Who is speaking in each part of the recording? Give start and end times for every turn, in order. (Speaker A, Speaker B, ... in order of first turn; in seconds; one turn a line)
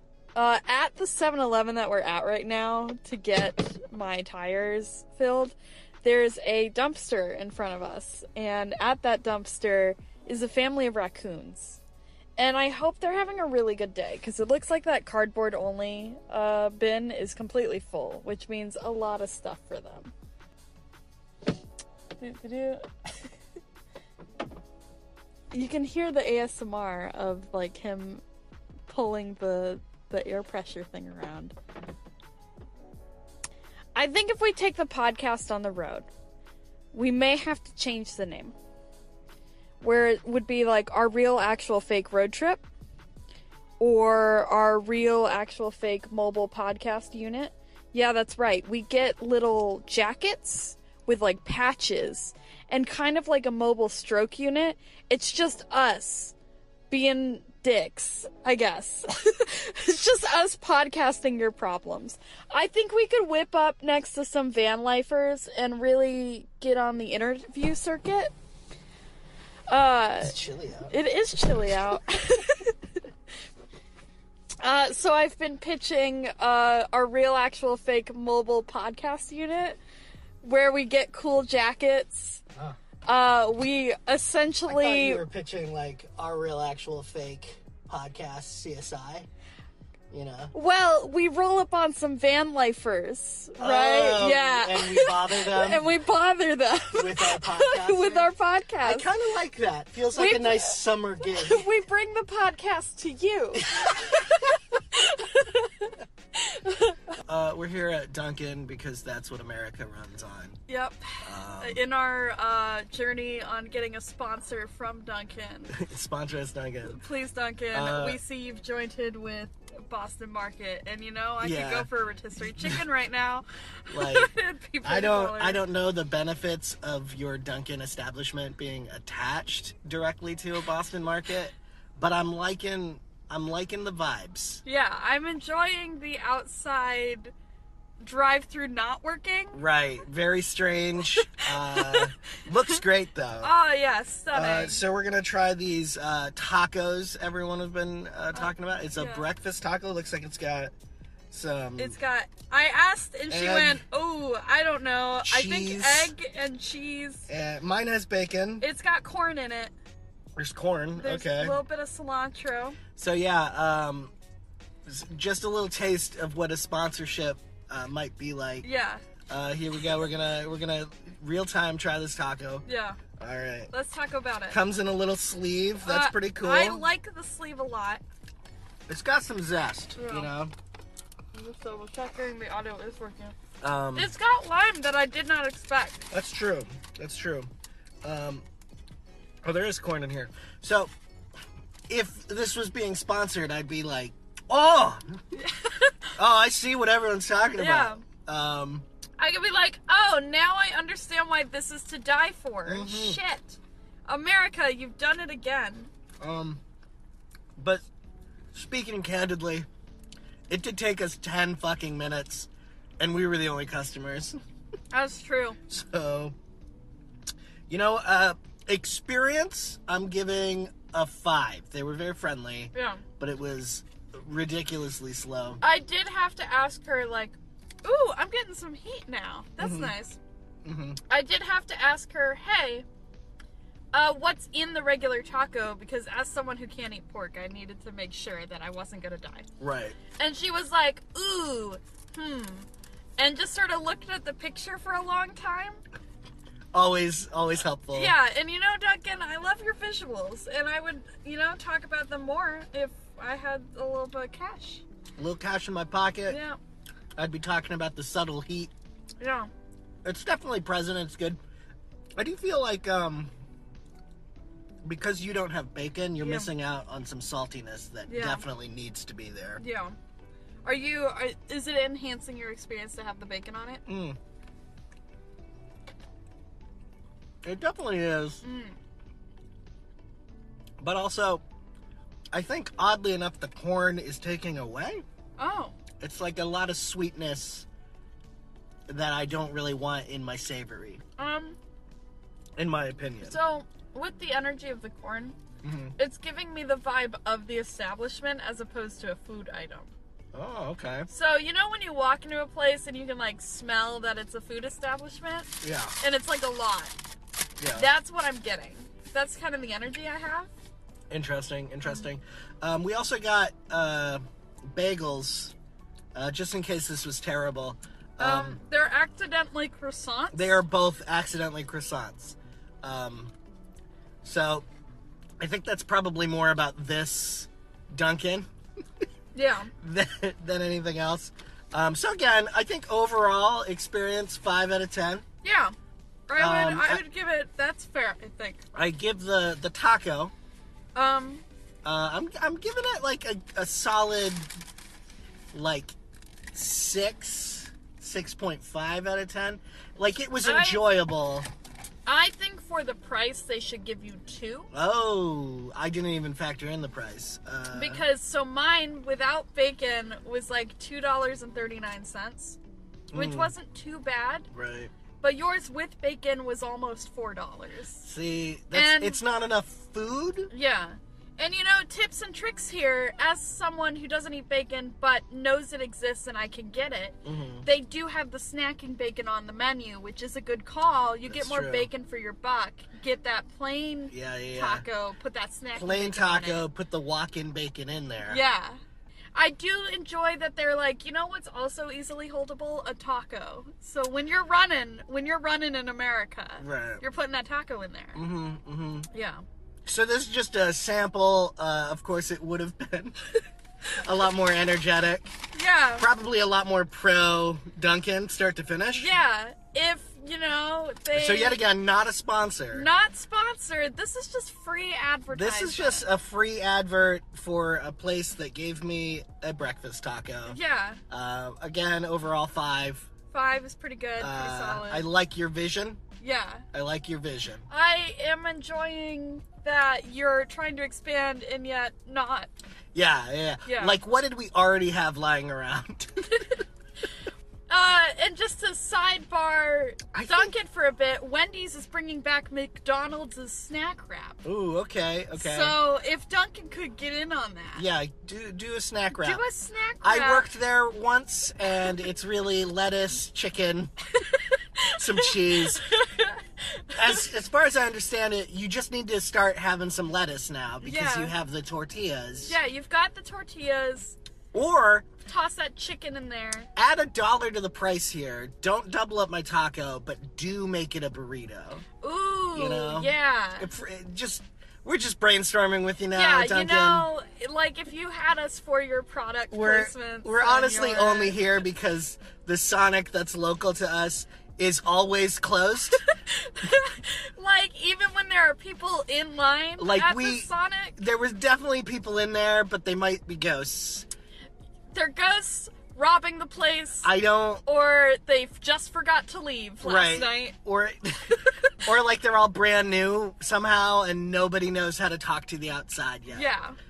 Speaker A: 0.3-11.8
Speaker A: 12.4-20.1
Speaker A: 22.2-23.3
Speaker A: 25.5-28.2
Speaker A: 28.9-31.5
Speaker A: 33.9-36.1
Speaker A: 36.9-38.5
Speaker A: 39.8-42.6
Speaker A: 43.8-56.3
Speaker A: 56.9-68.3
Speaker A: 69.7-70.3
Speaker B: 70.2-70.9
Speaker A: 70.9-73.0
Speaker A: 74.6-79.8
Speaker A: 80.4-82.4
Speaker A: 83.0-85.2
Speaker B: 84.7-89.3
Speaker B: 90.1-90.5
Speaker A: 90.5-99.1
Speaker B: 93.6-95.9
Speaker B: 96.9-98.3
Speaker B: 98.8-101.7
Speaker A: 100.1-107.2
Speaker B: 107.2-110.6
Speaker A: 110.7-115.7
Speaker B: 111.2-111.8
Speaker B: 115.7-117.0
Speaker A: 116.9-125.6
Speaker B: 117.7-118.2
Speaker B: 121.4-121.9
Speaker B: 123.9-124.3
Speaker B: 124.8-134.6
Speaker A: 134.6-137.3
Speaker A: 138.0-139.6
Speaker B: 139.5-143.5
Speaker A: 141.3-142.8
Speaker A: 143.4-144.8
Speaker B: 144.3-150.7
Speaker A: 148.3-149.3
Speaker B: 151.3-152.0
Speaker A: 151.8-157.3
Speaker B: 153.3-153.8
Speaker B: 155.2-156.1
Speaker B: 157.3-158.7
Speaker A: 158.6-159.7
Speaker B: 160.3-161.6
Speaker A: 161.0-162.8
Speaker B: 162.9-164.1
Speaker B: 164.8-168.7
Speaker A: 168.6-169.0
Speaker B: 169.3-172.6
Speaker A: 172.7-173.0
Speaker B: 173.2-173.7
Speaker A: 173.7-174.6
Speaker B: 174.5-176.8
Speaker A: 175.8-178.0
Speaker B: 178.9-180.5
Speaker A: 180.0-180.3
Speaker A: 181.3-183.3
Speaker B: 183.6-184.1
Speaker A: 183.9-186.1
Speaker B: 186.1-187.5
Speaker B: 188.0-188.4
Speaker B: 189.4-190.9
Speaker B: 191.9-195.2
Speaker A: 195.3-196.1
Speaker B: 196.2-198.8
Speaker A: 197.5-198.0
Speaker A: 199.2-205.9
Speaker B: 202.7-203.2
Speaker B: 206.2-206.6
Speaker B: 207.6-207.8
Speaker B: 208.5-209.7
Speaker B: 210.5-214.4
Speaker A: 214.9-215.6
Speaker B: 215.7-216.3
Speaker B: 217.7-225.6
Speaker A: 222.7-223.0
Speaker A: 225.6-230.2
Speaker B: 229.6-229.9
Speaker B: 230.6-231.0
Speaker A: 231.1-232.8
Speaker A: 233.9-239.5
Speaker B: 239.6-240.0
Speaker A: 240.2-245.8
Speaker B: 246.7-248.1
Speaker A: 247.9-254.8
Speaker B: 255.2-256.4
Speaker A: 256.3-256.6
Speaker B: 257.2-258.7
Speaker A: 259.2-259.5
Speaker B: 260.0-261.4
Speaker B: 262.2-263.3
Speaker B: 264.8-269.6
Speaker A: 266.2-266.5
Speaker A: 268.1-268.4
Speaker A: 269.6-270.0
Speaker A: 270.6-273.8
Speaker B: 273.9-274.2
Speaker B: 277.4-278.4
Speaker A: 278.4-278.8
Speaker B: 280.8-281.4
Speaker B: 282.3-285.0
Speaker A: 285.4-285.8
Speaker B: 286.0-287.7
Speaker B: 288.9-291.0
Speaker A: 291.2-291.6
Speaker B: 292.6-293.4
Speaker A: 293.2-295.4
Speaker B: 295.6-295.9
Speaker A: 296.0-299.9
Speaker B: 300.3-301.1
Speaker A: 301.1-306.9
Speaker B: 305.6-305.9
Speaker B: 307.6-307.9
Speaker A: 307.7-310.5
Speaker B: 311.1-315.5
Speaker B: 316.1-318.6
Speaker A: 318.2-320.6
Speaker B: 320.3-323.3
Speaker B: 324.2-324.6
Speaker B: 325.4-328.5
Speaker A: 329.3-329.7
Speaker B: 329.8-335.2
Speaker A: 335.4-335.7
Speaker A: 336.3-338.6
Speaker B: 336.4-337.0
Speaker B: 338.7-340.3
Speaker A: 340.9-341.4
Speaker B: 341.8-344.5
Speaker B: 345.5-345.9
Speaker B: 346.5-351.5
Speaker A: 350.4-350.8
Speaker A: 352.1-354.7
Speaker B: 354.7-358.0
Speaker A: 357.7-362.6
Speaker B: 363.1-363.5
Speaker A: 363.1-364.5
Speaker B: 364.5-364.9
Speaker A: 365.2-368.0
Speaker B: 368.0-370.5
Speaker A: 368.7-369.2
Speaker A: 370.5-386.6
Speaker B: 377.2-377.7
Speaker B: 381.3-381.9
Speaker B: 384.1-384.8
Speaker B: 385.8-388.4
Speaker A: 388.3-388.8
Speaker A: 389.3-398.2
Speaker B: 396.6-397.0
Speaker B: 398.1-399.1
Speaker A: 399.1-399.4
Speaker B: 399.9-403.2
Speaker B: 404.0-405.3
Speaker A: 405.5-406.1
Speaker B: 406.0-409.1
Speaker A: 408.9-411.6
Speaker B: 411.1-412.9
Speaker A: 412.7-416.1
Speaker B: 415.3-420.6
Speaker A: 420.5-421.0
Speaker B: 421.1-423.1
Speaker A: 423.3-425.0
Speaker B: 424.2-426.0
Speaker A: 426.2-426.6
Speaker B: 426.7-427.7
Speaker A: 427.7-432.5
Speaker B: 432.9-436.6
Speaker A: 433.6-434.0
Speaker A: 437.7-444.4
Speaker B: 440.1-440.5
Speaker B: 444.4-445.8
Speaker A: 445.3-447.8
Speaker B: 447.8-449.4
Speaker A: 449.1-450.5
Speaker B: 450.0-453.9
Speaker A: 454.1-457.2
Speaker B: 454.9-455.9
Speaker B: 456.9-462.5
Speaker A: 460.8-461.3
Speaker A: 462.4-464.2
Speaker B: 464.5-465.1
Speaker A: 465.2-466.7
Speaker B: 466.8-471.8
Speaker A: 472.0-473.7
Speaker B: 472.5-477.1
Speaker A: 476.1-481.4
Speaker B: 479.5-486.0
Speaker A: 485.9-490.9
Speaker B: 489.8-494.1
Speaker A: 494.9-497.1
Speaker B: 497.0-497.6
Speaker A: 497.6-500.5
Speaker B: 499.8-506.5
Speaker A: 501.4-501.8
Speaker A: 506.3-506.8